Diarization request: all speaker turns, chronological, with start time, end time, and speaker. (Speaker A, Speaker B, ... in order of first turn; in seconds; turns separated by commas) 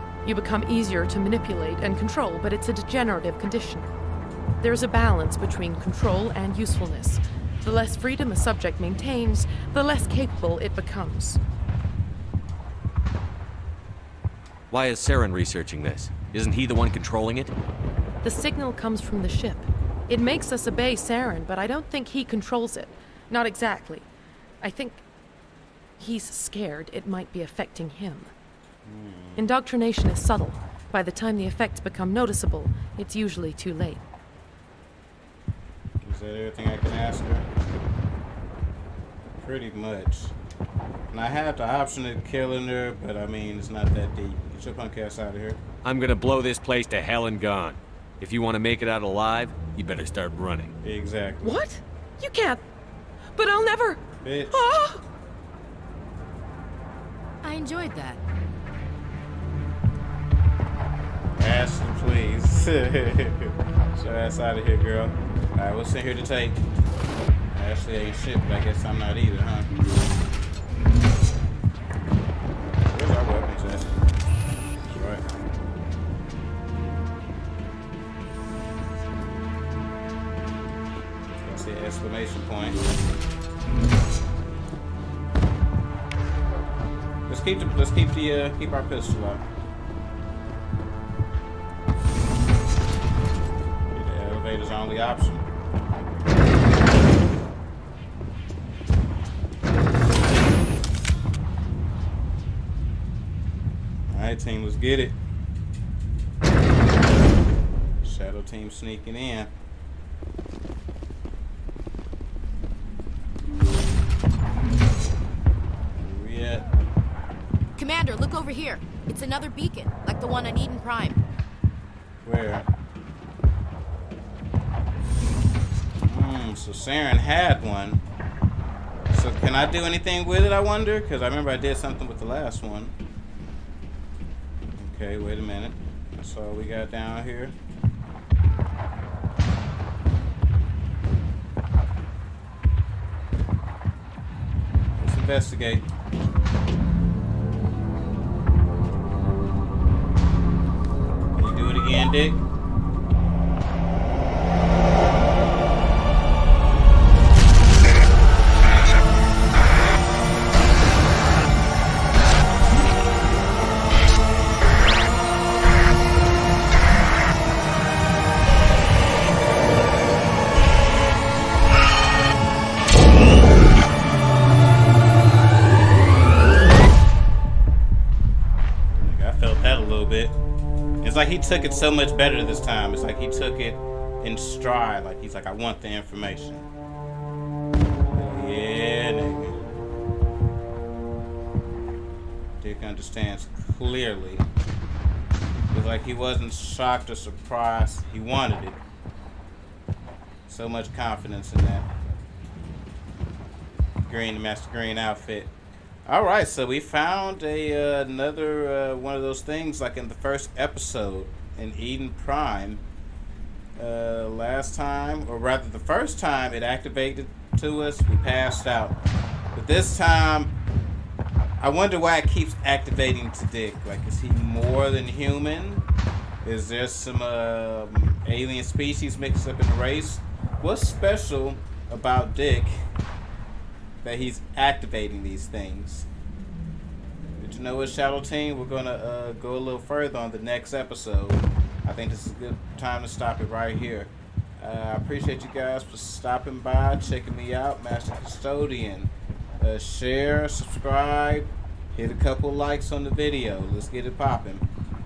Speaker A: 0.2-3.9, Speaker A: 4.6-11.4, Speaker B: 14.7-17.5, Speaker A: 18.2-24.1, Speaker A: 24.6-25.0, Speaker A: 26.0-28.3, Speaker C: 28.9-29.5, Speaker A: 29.4-34.0, Speaker C: 36.0-37.5, Speaker C: 39.4-40.3, Speaker C: 41.1-45.6, Speaker B: 45.8-50.7, Speaker C: 50.8-51.6, Speaker A: 51.4-52.6, Speaker A: 53.4-55.0, Speaker C: 54.2-54.7, Speaker D: 57.4-58.2, Speaker C: 61.4-66.6, Speaker C: 67.5-69.7, Speaker C: 72.6-73.9, Speaker C: 74.8-75.2, Speaker C: 81.4-82.8, Speaker C: 87.3-89.5, Speaker C: 93.9-95.5, Speaker C: 104.1-105.2, Speaker C: 108.0-109.5, Speaker C: 116.0-116.7, Speaker D: 117.8-121.2, Speaker C: 122.2-122.6, Speaker C: 126.0-128.0, Speaker C: 129.1-132.9, Speaker C: 134.8-137.5, Speaker C: 145.0-145.8, Speaker C: 151.3-152.4, Speaker C: 178.9-180.3, Speaker C: 181.0-186.7, Speaker C: 188.1-189.6, Speaker C: 192.6-194.4, Speaker C: 195.7-198.8, Speaker C: 200.5-201.9, Speaker C: 204.0-205.5, Speaker C: 206.1-212.8, Speaker C: 213.8-218.9, Speaker C: 219.5-220.5, Speaker C: 221.6-225.8, Speaker C: 226.4-232.8, Speaker C: 234.0-236.1, Speaker C: 237.4-254.7